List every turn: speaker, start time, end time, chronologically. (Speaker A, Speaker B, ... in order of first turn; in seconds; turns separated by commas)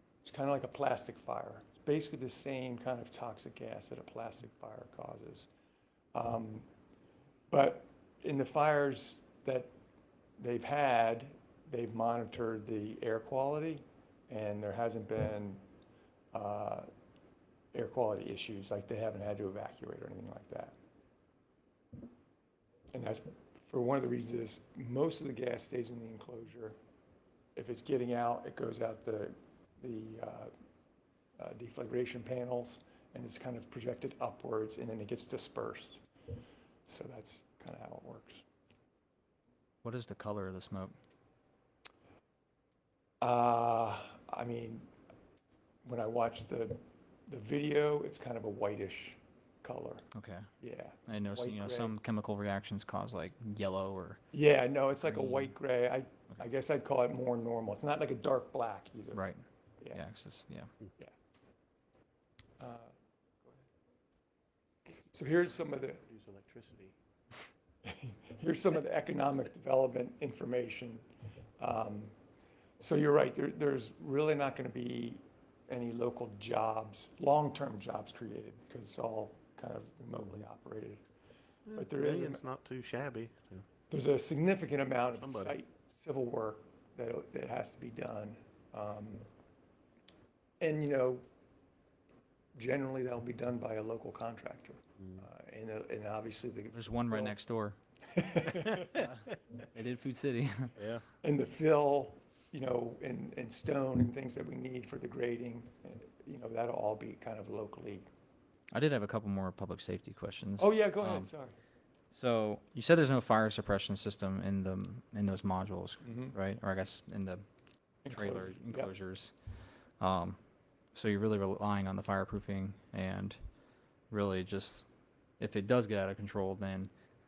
Speaker A: 0.2-5.5, Speaker A: 6.1-6.7, Speaker A: 7.5-9.7, Speaker A: 10.4-15.6, Speaker A: 16.3-16.9, Speaker A: 17.7-20.8, Speaker A: 22.9-26.8, Speaker A: 27.6-30.5, Speaker A: 31.4-36.0, Speaker A: 36.9-38.5, Speaker B: 39.8-40.9, Speaker A: 43.2-44.9, Speaker A: 45.9-50.0, Speaker B: 50.1-50.5, Speaker A: 50.6-52.0, Speaker B: 51.1-54.2, Speaker A: 54.3-59.2, Speaker B: 55.0-55.5, Speaker B: 59.1-59.4, Speaker B: 59.9-60.7, Speaker A: 62.6-63.6, Speaker A: 65.1-66.0, Speaker C: 66.0-67.0, Speaker A: 67.8-71.1, Speaker A: 71.6-72.1, Speaker A: 72.8-81.0, Speaker C: 81.7-83.7, Speaker A: 81.8-82.4, Speaker A: 83.9-89.2, Speaker C: 85.2-85.5, Speaker A: 90.6-91.2, Speaker A: 92.6-97.3, Speaker B: 96.7-97.8, Speaker A: 98.1-99.1, Speaker B: 98.9-99.2, Speaker B: 99.7-100.8, Speaker C: 100.8-101.0, Speaker A: 101.2-108.1, Speaker B: 108.7-111.3, Speaker A: 110.6-111.5, Speaker B: 112.1-117.4, Speaker A: 116.0-116.3, Speaker A: 118.0-118.9, Speaker B: 118.1-119.3, Speaker B: 120.0-120.4, Speaker B: 121.0-123.4, Speaker B: 124.1-124.9, Speaker B: 125.4-126.9